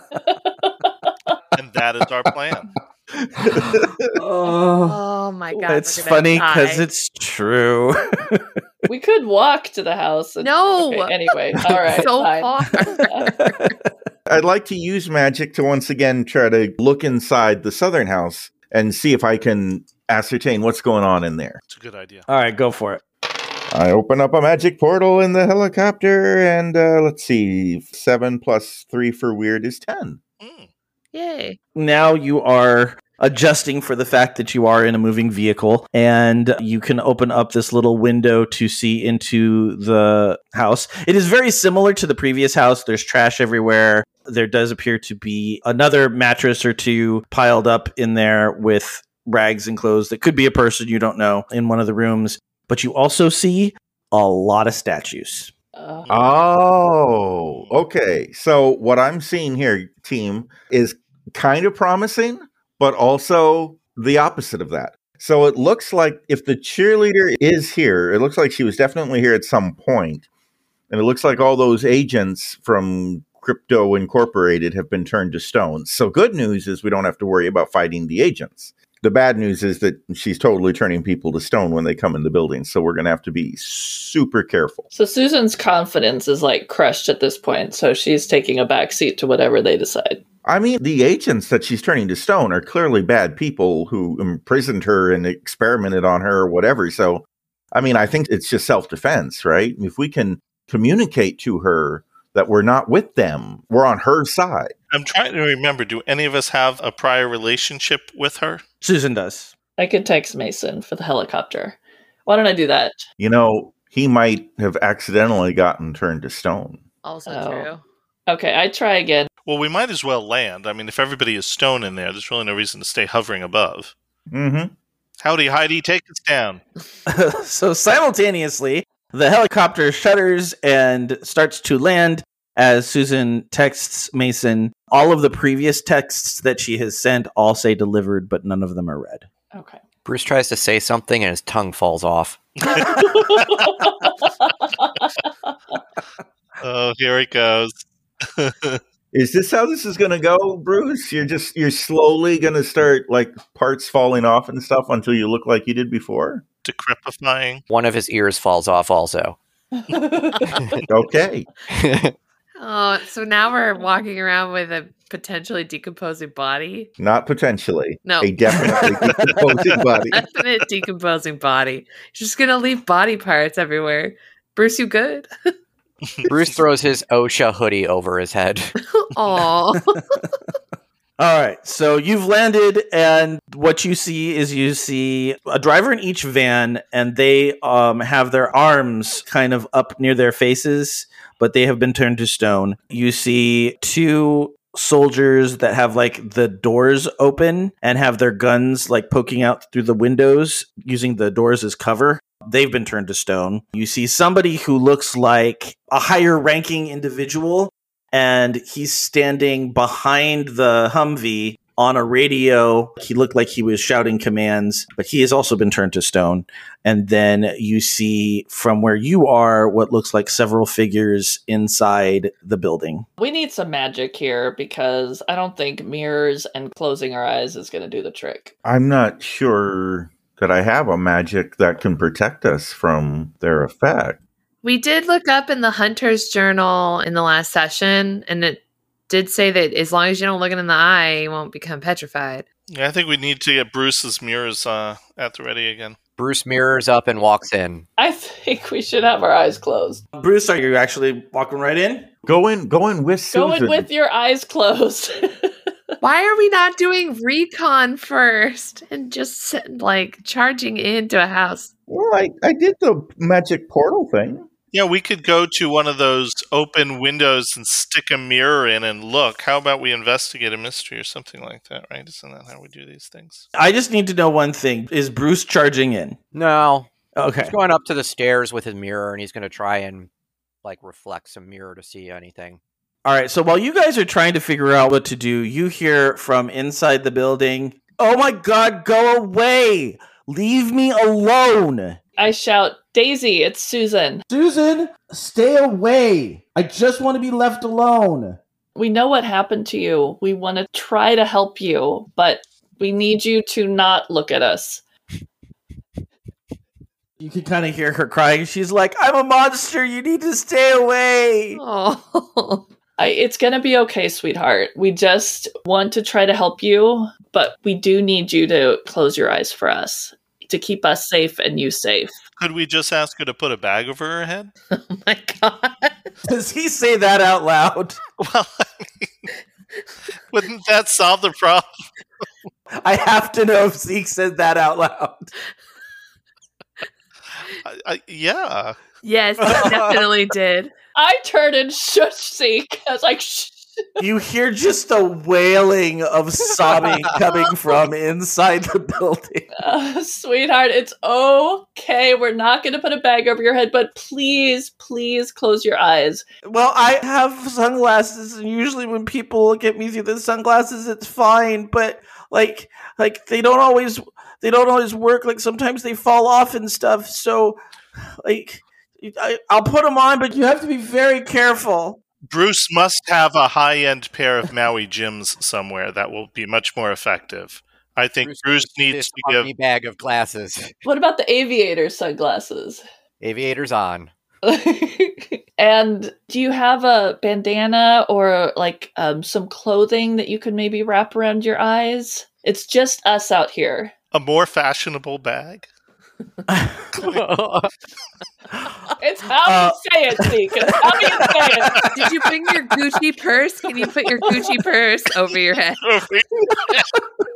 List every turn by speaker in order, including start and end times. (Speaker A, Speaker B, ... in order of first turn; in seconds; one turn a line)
Speaker A: 0.1-1.3
Speaker B: 1.6-2.7
Speaker C: 3.4-5.0
Speaker D: 3.5-3.9
Speaker E: 4.8-6.8
Speaker C: 5.5-8.5
Speaker A: 8.9-13.3
Speaker E: 10.4-11.2
Speaker E: 11.9-13.1
Speaker C: 12.7-13.8
Speaker D: 14.3-21.6
Speaker B: 21.7-22.2
Speaker C: 22.3-23.0
Speaker D: 23.7-30.2
Speaker B: 30.4-30.7
Speaker E: 31.1-31.6
Speaker C: 31.7-55.5
Speaker A: 55.8-56.1
Speaker D: 56.1-70.2
Speaker D: 70.9-84.9
Speaker A: 84.9-90.2
Speaker D: 90.4-104.7
Speaker B: 104.9-108.6
Speaker C: 108.8-109.5
Speaker A: 109.8-113.0
Speaker D: 113.2-116.8
Speaker E: 117.0-117.8
Speaker A: 117.3-117.7
Speaker A: 118.3-119.3
Speaker B: 119.5-123.9
Speaker D: 124.3-124.7
Speaker B: 125.2-126.6
Speaker C: 127.1-139.3
Speaker A: 139.5-139.8
Speaker F: 140.1-142.4
Speaker A: 142.8-145.5
Speaker B: 146.6-148.8
Speaker D: 149.1-156.4
Speaker B: 156.6-157.6
Speaker F: 157.7-159.4
Speaker A: 159.7-160.7
Speaker D: 160.9-161.5
Speaker F: 161.7-162.1
Speaker E: 162.6-166.9
Speaker D: 167.0-170.2
Speaker E: 168.0-168.3
Speaker E: 170.1-175.3
Speaker F: 176.3-178.7
Speaker E: 178.8-180.0
Speaker C: 181.2-223.0
Speaker A: 223.2-228.5
Speaker D: 228.6-234.2
Speaker E: 234.6-242.4
Speaker B: 242.7-245.9
Speaker F: 246.2-247.8
Speaker A: 248.0-250.0
Speaker C: 250.1-252.1
Speaker D: 252.2-253.9
Speaker A: 253.3-255.5
Speaker E: 256.0-261.7
Speaker D: 261.9-264.5
Speaker B: 264.7-273.4
Speaker C: 273.5-276.2
Speaker F: 276.3-276.9
Speaker C: 277.1-277.5
Speaker F: 277.4-280.1
Speaker F: 280.6-282.6
Speaker C: 283.0-292.0
Speaker A: 292.2-294.2
Speaker C: 294.3-298.4
Speaker A: 298.8-304.8
Speaker C: 307.2-311.6
Speaker E: 311.5-312.6
Speaker A: 313.0-322.1
Speaker B: 322.4-324.5
Speaker E: 324.7-325.9
Speaker C: 326.2-328.0
Speaker B: 328.2-329.2
Speaker B: 330.3-331.7
Speaker C: 332.8-335.3
Speaker B: 337.6-338.8
Speaker E: 339.0-340.7
Speaker A: 340.9-343.8
Speaker C: 344.0-349.5
Speaker A: 349.6-356.2
Speaker C: 356.4-367.6
Speaker C: 368.2-372.0
Speaker B: 372.3-379.5
Speaker F: 378.2-380.7
Speaker A: 380.8-382.8
Speaker F: 383.2-384.1
Speaker A: 384.4-393.9
Speaker B: 394.1-395.7
Speaker C: 396.5-397.1
Speaker F: 397.0-397.7
Speaker A: 399.0-401.8
Speaker C: 399.4-399.8
Speaker C: 400.9-401.6
Speaker E: 401.9-405.8
Speaker B: 405.8-406.9